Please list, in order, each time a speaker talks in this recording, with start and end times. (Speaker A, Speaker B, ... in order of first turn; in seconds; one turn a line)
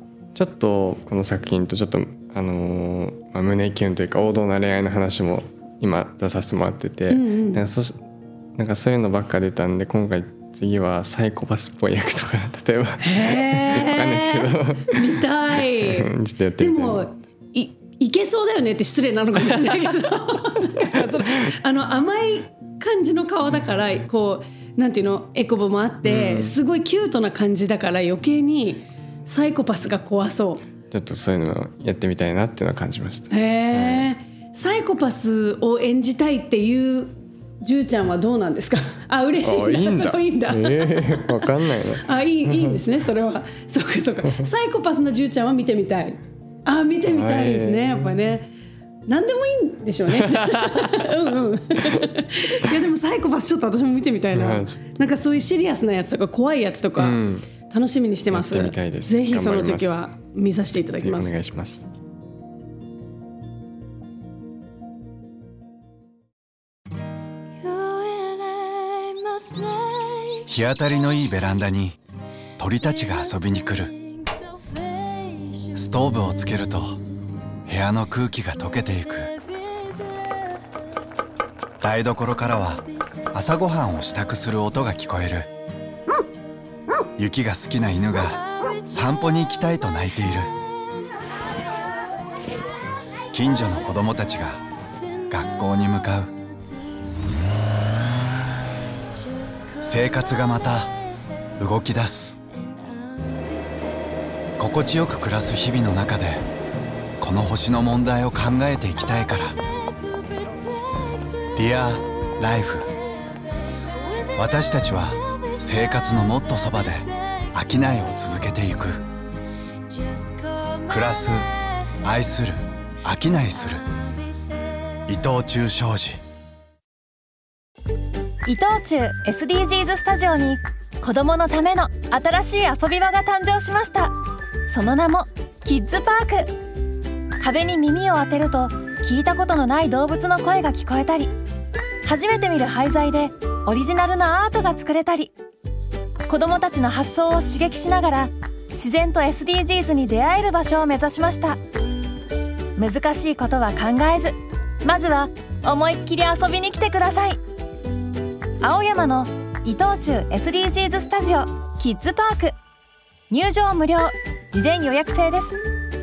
Speaker A: 0.3-8.0
Speaker B: 7.1-7.6
Speaker A: 8.6-17.1
Speaker B: 13.0-30.6
Speaker A: 26.0-26.6
Speaker A: 30.9-34.1
Speaker B: 33.3-48.5
Speaker A: 39.4-42.8
Speaker A: 47.1-48.2
Speaker B: 49.1-61.3
Speaker A: 50.1-52.1
Speaker A: 54.3-55.0
Speaker A: 57.0-57.5
Speaker A: 58.3-60.0
Speaker A: 61.0-61.9
Speaker C: 70.4-72.0
Speaker C: 72.6-74.0
Speaker C: 75.7-77.0
Speaker C: 77.7-79.3
Speaker C: 81.8-85.5
Speaker C: 87.2-90.6
Speaker C: 93.3-94.6
Speaker C: 95.3-96.3
Speaker C: 99.8-100.9
Speaker C: 101.6-102.4
Speaker C: 104.6-106.4
Speaker C: 107.2-109.6
Speaker C: 111.5-112.9
Speaker C: 114.3-119.0
Speaker C: 120.9-121.5
Speaker C: 122.0-123.9
Speaker C: 125.1-126.2
Speaker D: 128.5-134.2
Speaker D: 134.7-136.5
Speaker D: 137.4-141.3
Speaker D: 142.0-145.3
Speaker D: 146.3-151.6
Speaker D: 152.8-157.4
Speaker D: 158.6-162.5
Speaker D: 163.3-165.6